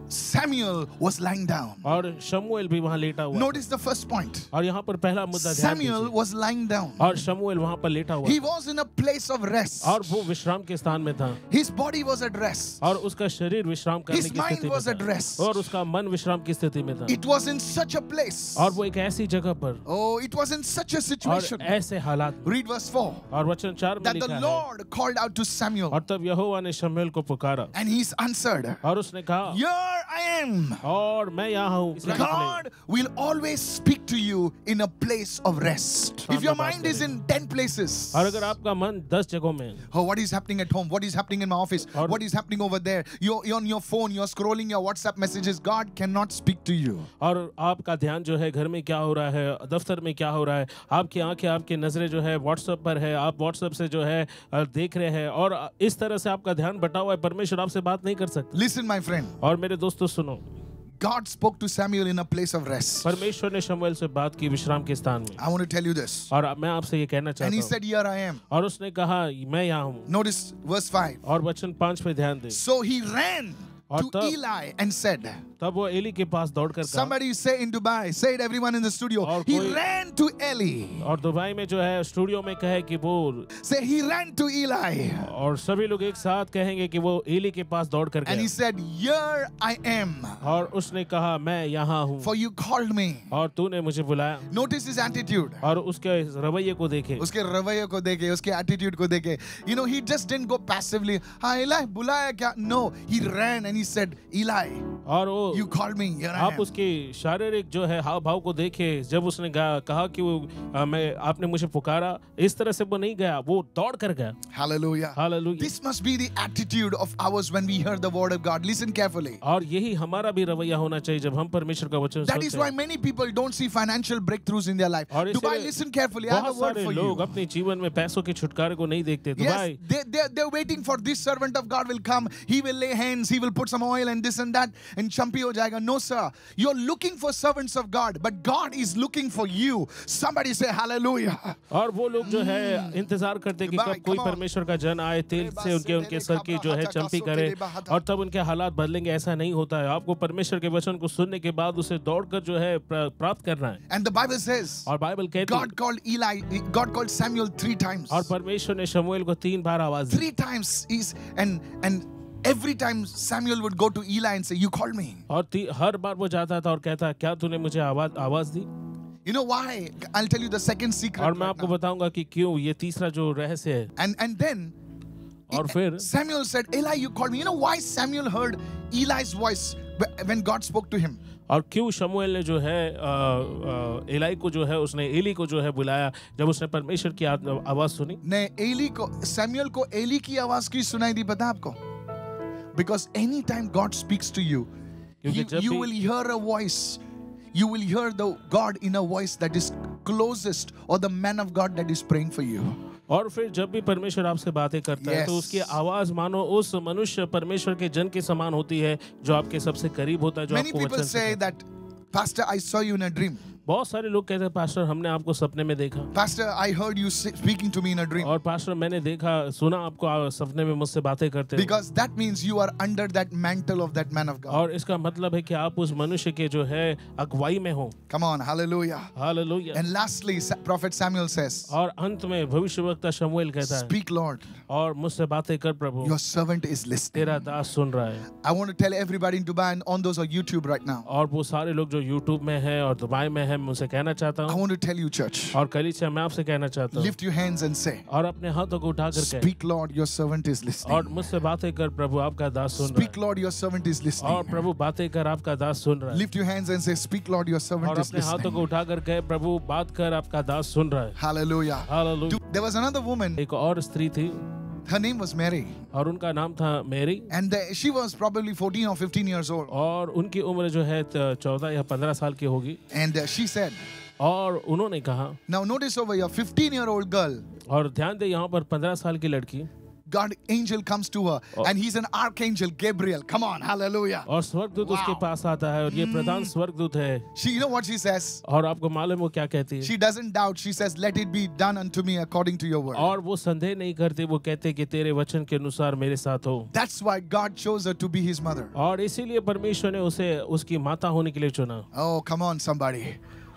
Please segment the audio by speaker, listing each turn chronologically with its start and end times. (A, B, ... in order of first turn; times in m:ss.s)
0:00.1-0:02.0 A
0:01.8-0:03.6 B
0:03.3-0:04.5 A
0:04.5-0:06.1 B
0:05.3-0:07.3 A
0:07.0-0:08.4 B
0:08.2-0:10.3 A
0:09.8-0:11.4 B
0:11.5-0:12.9 A
0:12.8-0:17.2 B
0:14.1-0:15.7 A
0:17.1-0:18.8 A
0:18.6-0:19.8 B
0:19.8-0:21.8 A
0:21.2-0:22.4 B
0:22.4-0:23.2 A
0:23.3-0:24.6 B
0:24.0-0:26.0 A
0:25.9-0:27.7 B
0:27.7-0:28.8 A
0:28.8-0:29.6 B
0:29.4-0:30.8 A
0:30.8-0:32.6 B
0:32.0-0:38.5 A
0:36.3-0:37.1 B
0:38.1-0:39.8 B
0:39.9-0:47.1 A
0:41.9-0:42.2 B
0:47.2-0:58.6 B
0:58.5-0:59.4 A
0:59.4-1:00.4 B
1:01.0-1:03.2 A
1:03.0-1:05.4 B
1:05.4-1:06.3 A
1:06.3-1:07.7 B
1:07.4-1:08.4 A
1:08.5-1:10.1 B
1:10.1-1:11.2 A
1:11.2-1:12.6 B
1:12.5-1:15.4 A
1:13.9-1:14.3 B
1:15.6-1:17.2 B
1:16.8-1:21.1 A
1:19.2-1:19.8 B
1:21.0-1:23.5 B
1:23.6-1:25.3 A
1:25.2-1:28.5 B
1:28.2-1:30.5 A
1:30.4-1:32.3 B
1:32.2-1:33.3 A
1:33.3-1:34.4 B
1:34.5-1:35.6 A
1:35.6-1:37.2 B
1:37.2-1:44.9 A
1:45.1-1:45.7 B
1:45.5-1:46.7 A
1:46.3-1:54.4 B
1:54.5-1:59.4 A
1:55.1-1:55.7 B
1:59.4-2:02.7 B
2:02.2-2:07.3 A
2:05.1-2:05.7 B
2:06.3-2:09.8 B
2:09.4-2:21.6 A
2:21.7-2:33.8 B
2:22.2-2:23.1 A
2:23.6-2:24.4 A
2:25.3-2:28.0 A
2:33.9-2:38.3 A
2:34.8-2:35.7 B
2:38.1-2:40.3 B
2:40.1-2:45.2 A
2:45.3-2:48.7 B
2:49.2-2:51.7 A
2:51.2-2:53.9 B
2:54.0-2:54.7 A
2:55.5-2:56.1 B
2:55.5-3:01.2 A
3:01.5-3:08.2 B
3:08.2-3:11.8 A
3:12.7-3:14.7 A
3:15.2-3:15.9 B
3:15.2-3:17.0 A
3:17.5-3:22.8 A
3:23.1-3:31.4 B
3:25.0-3:25.7 A
3:30.5-3:33.5 A
3:33.7-3:36.1 B
3:36.1-3:38.3 A
3:38.2-3:41.7 B
3:41.5-3:44.6 A
3:44.5-3:47.9 B
3:48.1-3:49.1 A
3:49.2-3:49.8 B
3:49.7-3:51.7 A
3:51.7-3:53.9 B
3:53.6-3:54.5 A
3:54.7-3:56.1 B
3:56.0-3:57.5 A
3:57.1-3:58.3 B
3:58.3-4:01.1 A
4:01.1-4:04.6 B
4:04.5-4:05.6 A
4:05.5-4:07.1 B
4:06.9-4:08.0 A
4:08.1-4:09.5 B
4:09.1-4:11.2 A
4:10.8-4:13.1 B
4:12.8-4:14.7 A
4:14.2-4:16.2 B
4:16.1-4:18.6 A
4:17.8-4:21.2 B
4:21.2-4:23.4 A
4:21.9-4:22.4 B
4:23.4-4:24.4 B
4:24.9-4:25.8 A
4:25.9-4:27.3 B
4:27.3-4:29.7 A
4:29.7-4:32.8 B
4:32.9-4:33.8 A
4:34.2-4:35.4 B
4:35.5-4:37.4 A
4:37.7-4:39.7 B
4:40.1-4:44.3 A
4:44.3-4:47.2 B
4:44.8-4:45.2 A
4:45.9-4:46.5 A
4:47.4-4:48.4 A
4:48.4-4:49.9 B
4:49.8-4:53.2 A
4:52.9-4:56.7 B
4:56.7-4:58.7 A
4:58.8-5:01.8 B
5:01.9-5:03.2 A